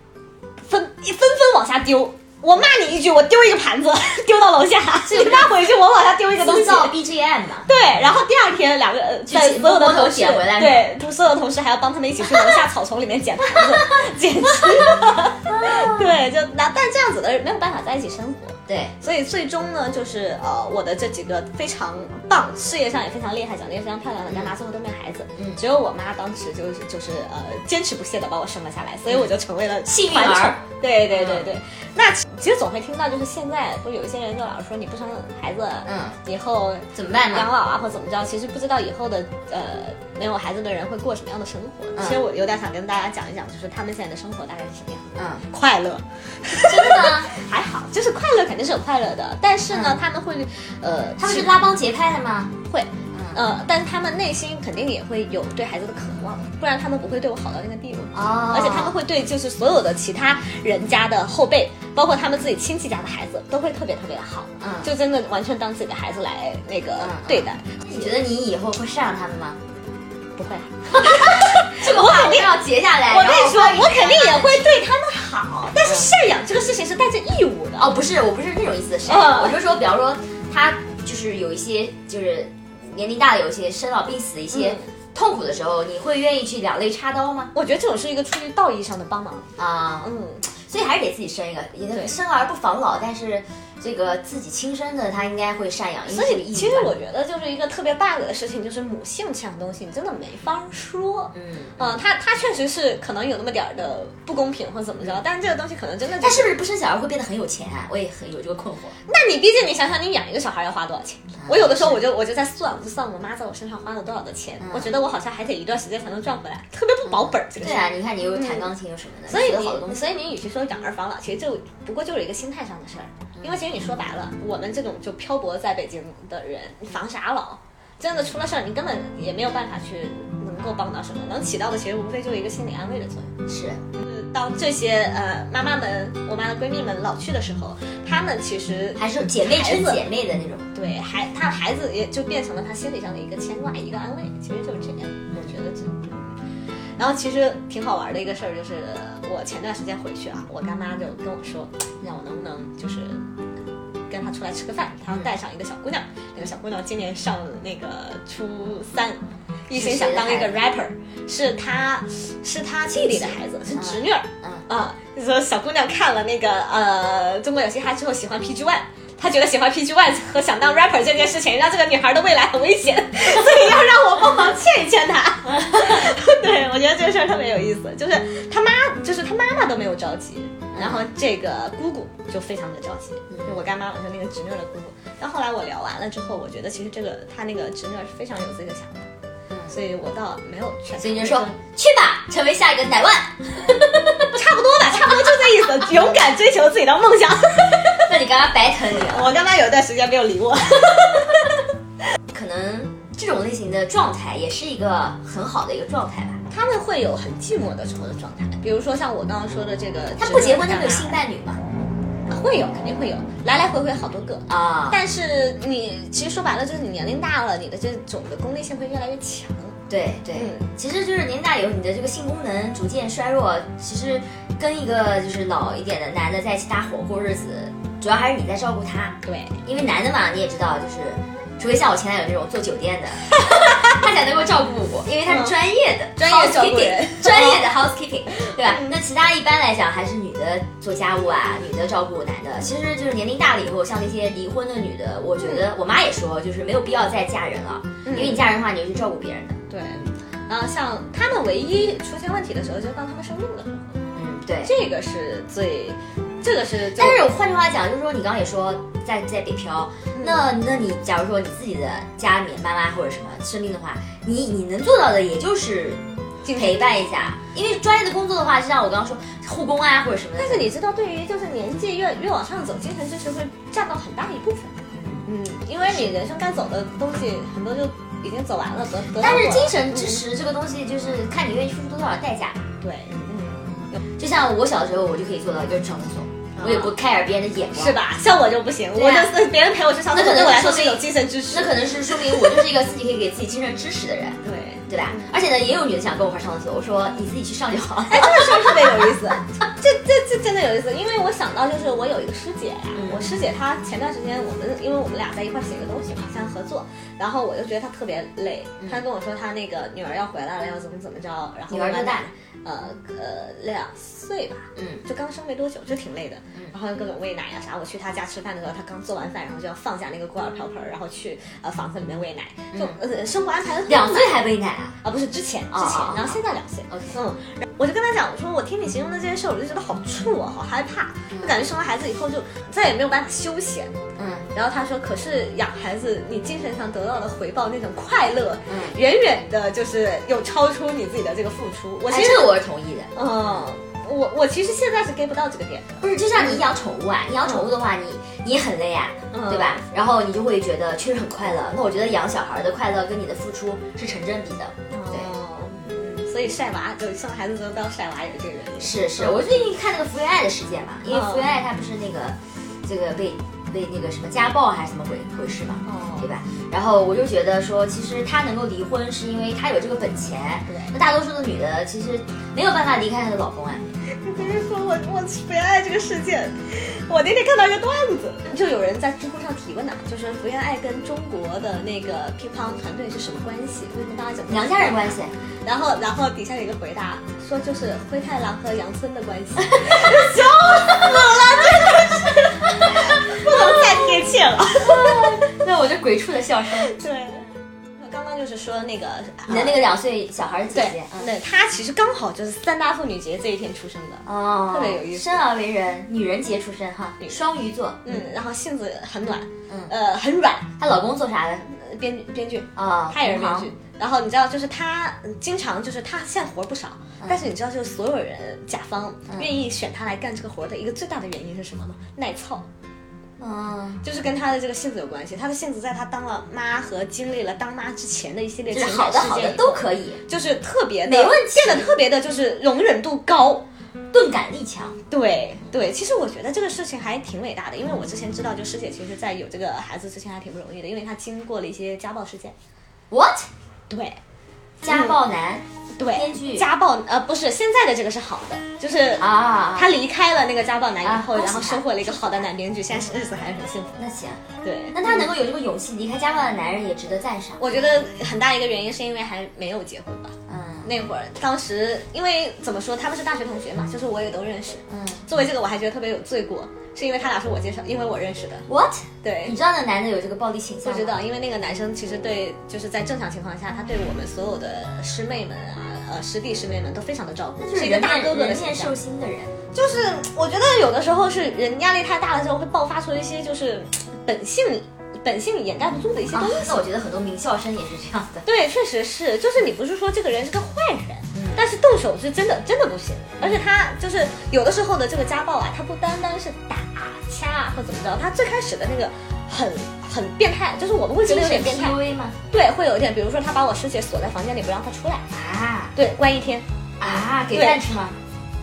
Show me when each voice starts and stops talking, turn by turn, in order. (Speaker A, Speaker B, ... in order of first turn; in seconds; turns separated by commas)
Speaker A: 0.6-7.0, Speaker B: 5.1-5.6, Speaker B: 6.3-7.7, Speaker A: 7.7-51.6, Speaker B: 9.3-10.9, Speaker B: 12.3-12.6, Speaker B: 13.6-13.9, Speaker B: 15.5-16.0, Speaker B: 18.7-18.9, Speaker B: 24.3-24.5, Speaker B: 25.4-25.6, Speaker B: 29.9-31.5, Speaker B: 35.9-36.2, Speaker B: 36.9-37.5, Speaker B: 42.0-42.2, Speaker B: 45.2-45.4, Speaker B: 46.5-47.3, Speaker B: 49.7-50.0, Speaker B: 51.2-52.5, Speaker A: 52.6-68.0, Speaker B: 53.1-53.4, Speaker B: 58.1-59.0, Speaker B: 64.6-64.9, Speaker B: 67.0-69.6, Speaker A: 70.4-78.0, Speaker B: 70.9-74.7, Speaker B: 75.8-76.1, Speaker B: 77.8-87.5, Speaker A: 79.0-79.6, Speaker A: 84.5-84.9, Speaker A: 87.5-89.5, Speaker B: 89.6-97.0, Speaker A: 90.0-90.5, Speaker A: 96.1-106.6, Speaker B: 101.3-101.8, Speaker B: 106.2-109.0, Speaker A: 109.1-118.7, Speaker B: 111.4-112.0, Speaker B: 114.6-114.9, Speaker B: 117.1-120.0, Speaker A: 119.3-133.3, Speaker B: 133.5-133.8, Speaker A: 134.0-140.0, Speaker B: 139.0-140.7, Speaker A: 140.7-146.4, Speaker A: 147.0-153.2, Speaker A: 154.1-189.1, Speaker B: 159.7-160.6, Speaker B: 162.9-164.7, Speaker B: 180.7-181.1, Speaker B: 183.3-183.6, Speaker B: 189.5-189.8, Speaker A: 189.7-191.6, Speaker B: 191.0-194.3, Speaker A: 194.3-198.1, Speaker B: 197.9-199.4, Speaker A: 198.9-201.6, Speaker B: 202.3-206.4, Speaker A: 206.5-211.2, Speaker B: 210.2-211.6, Speaker A: 212.3-219.8, Speaker B: 214.5-215.0, Speaker B: 219.9-249.6, Speaker A: 220.3-220.7, Speaker A: 229.2-229.6, Speaker A: 235.2-235.6, Speaker A: 236.2-237.7, Speaker A: 238.5-238.9, Speaker A: 248.1-248.5, Speaker A: 249.7-254.0, Speaker B: 254.2-254.7, Speaker A: 254.7-257.3, Speaker B: 256.9-266.0, Speaker A: 260.1-260.5, Speaker A: 266.4-266.9, Speaker B: 266.5-270.7, Speaker A: 270.4-280.2, Speaker B: 274.9-275.2, Speaker B: 279.2-282.7, Speaker A: 282.8-284.0, Speaker B: 284.1-288.0, Speaker A: 286.6-286.9, Speaker A: 287.8-292.6, Speaker B: 288.9-289.4, Speaker B: 290.1-299.1, Speaker A: 294.4-295.3, Speaker A: 298.1-324.4, Speaker B: 302.9-303.3, Speaker B: 311.7-312.3, Speaker B: 314.8-315.0, Speaker B: 322.7-323.0, Speaker B: 323.9-325.0, Speaker A: 325.0-333.9, Speaker B: 325.7-327.2, Speaker B: 331.3-331.7, Speaker B: 334.2-334.5, Speaker A: 334.6-342.6, Speaker B: 338.7-339.0, Speaker B: 342.1-343.1, Speaker A: 343.1-346.6, Speaker B: 346.0-355.3, Speaker A: 349.3-349.8, Speaker A: 354.9-359.6, Speaker B: 358.8-373.9, Speaker A: 361.1-361.5, Speaker A: 365.9-366.3, Speaker A: 370.7-371.0, Speaker A: 374.1-395.4, Speaker B: 384.5-385.3, Speaker B: 389.6-394.2, Speaker B: 394.8-396.9, Speaker A: 396.8-399.9, Speaker B: 399.5-401.3, Speaker A: 400.7-405.4, Speaker B: 404.3-408.1, Speaker A: 407.2-407.5, Speaker A: 408.0-410.7, Speaker B: 410.8-411.7, Speaker A: 411.7-422.7, Speaker B: 412.8-413.7, Speaker B: 423.4-424.0, Speaker A: 424.0-433.6, Speaker B: 428.7-430.2, Speaker B: 431.1-431.9, Speaker B: 434.1-435.0, Speaker A: 435.1-442.5, Speaker B: 443.1-443.5, Speaker A: 443.9-444.2, Speaker B: 444.8-446.7, Speaker A: 444.9-445.2, Speaker A: 446.0-454.0, Speaker B: 449.2-450.0, Speaker B: 451.0-452.4, Speaker B: 454.0-457.6, Speaker A: 454.6-455.3, Speaker A: 457.6-468.7, Speaker B: 460.5-460.9, Speaker B: 464.9-465.2, Speaker B: 468.7-471.2, Speaker A: 469.2-469.6, Speaker A: 470.9-478.9, Speaker B: 477.6-479.6, Speaker A: 479.7-486.8, Speaker B: 486.3-488.5, Speaker A: 488.4-502.0, Speaker B: 491.3-491.6, Speaker B: 493.4-493.6, Speaker B: 501.2-502.4, Speaker A: 502.5-505.2, Speaker B: 505.3-505.9, Speaker A: 505.9-507.8, Speaker B: 507.0-508.2